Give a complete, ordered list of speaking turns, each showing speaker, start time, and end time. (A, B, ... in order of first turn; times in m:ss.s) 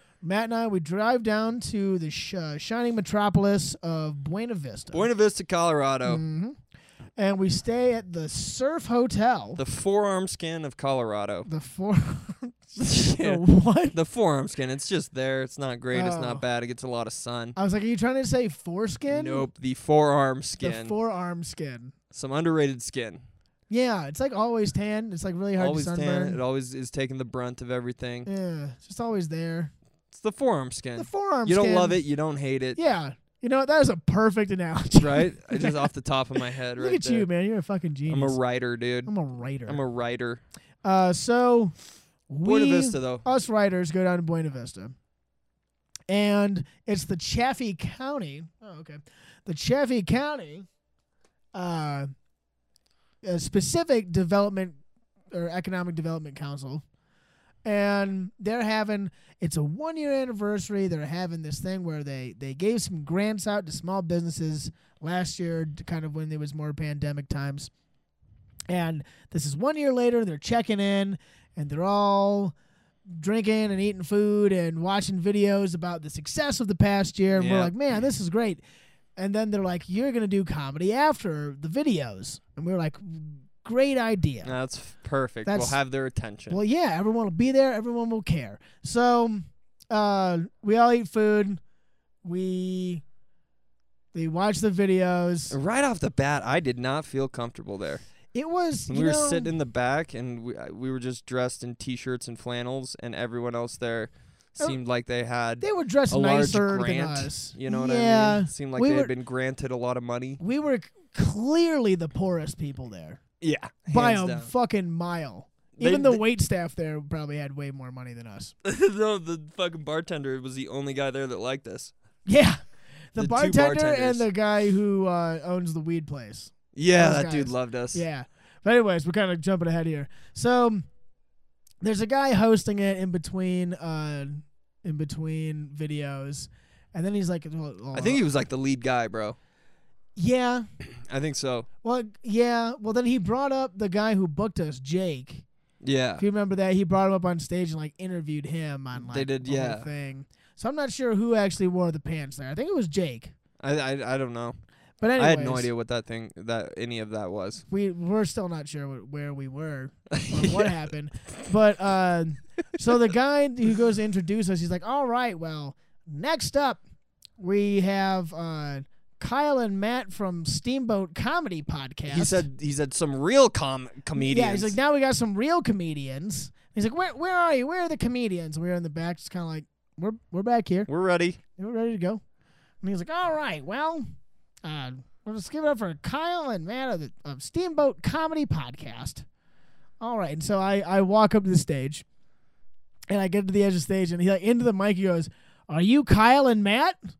0:00.2-0:05.1 A
0:04.9-0:06.2 B
0:06.0-0:06.6 A
0:07.2-0:09.6 A
0:09.6-0:11.5 B
0:11.5-0:13.9 A
0:12.8-0:17.6 B
0:15.9-0:16.4 A
0:17.6-0:19.5 A
0:19.1-0:20.9 B
0:20.6-0:21.9 A
0:22.1-0:23.2 B
0:23.7-0:26.4 A
0:25.6-0:28.3 B
0:28.2-0:29.7 A
0:30.1-0:32.8 B
0:31.0-0:32.0 A
0:32.7-0:35.9 A
0:35.0-0:37.3 B
0:36.8-0:38.4 A
0:38.1-0:39.1 B
0:39.0-0:39.8 A
0:39.6-0:40.4 B
0:40.8-0:41.8 A
0:42.3-0:44.9 A
0:42.4-0:43.2 B
0:46.1-0:50.7 A
0:51.5-0:52.1 A
0:53.2-0:54.8 A
0:55.3-0:56.8 A
0:57.6-1:07.7 A
1:08.7-1:12.5 A
1:13.1-1:18.6 A
1:17.4-1:18.0 B
1:19.2-1:24.5 A
1:24.4-1:26.6 B
1:25.4-1:25.8 A
1:26.5-1:31.6 A
1:32.2-1:33.0 A
1:34.1-1:35.6 A
1:35.5-1:38.0 B
1:38.3-1:39.5 A
1:38.9-1:50.4 B
1:45.6-1:49.1 A
1:50.4-1:53.2 A
1:53.4-1:54.5 B
1:53.9-1:58.5 A
1:55.8-1:56.2 B
1:58.6-2:01.9 B
2:02.2-2:02.6 A
2:03.1-2:10.9 A
2:03.2-2:04.2 B
2:06.7-2:08.0 B
2:11.8-2:18.2 A
2:17.9-2:19.4 B
2:20.2-2:20.6 A
2:20.8-2:21.7 B
2:21.8-2:25.4 A
2:25.8-2:26.2 B
2:26.2-2:33.3 A
2:28.9-2:29.9 B
2:33.6-2:34.6 B
2:35.0-2:35.7 A
2:35.2-2:37.6 B
2:37.7-2:46.8 A
2:40.1-2:40.7 B
2:47.4-2:52.4 A
2:52.1-2:54.8 B
2:54.1-3:00.9 A
3:00.9-3:01.4 B
3:01.6-3:02.2 A
3:02.8-3:04.1 A
3:04.6-3:09.2 A
3:10.0-3:12.0 A
3:13.1-3:17.0 A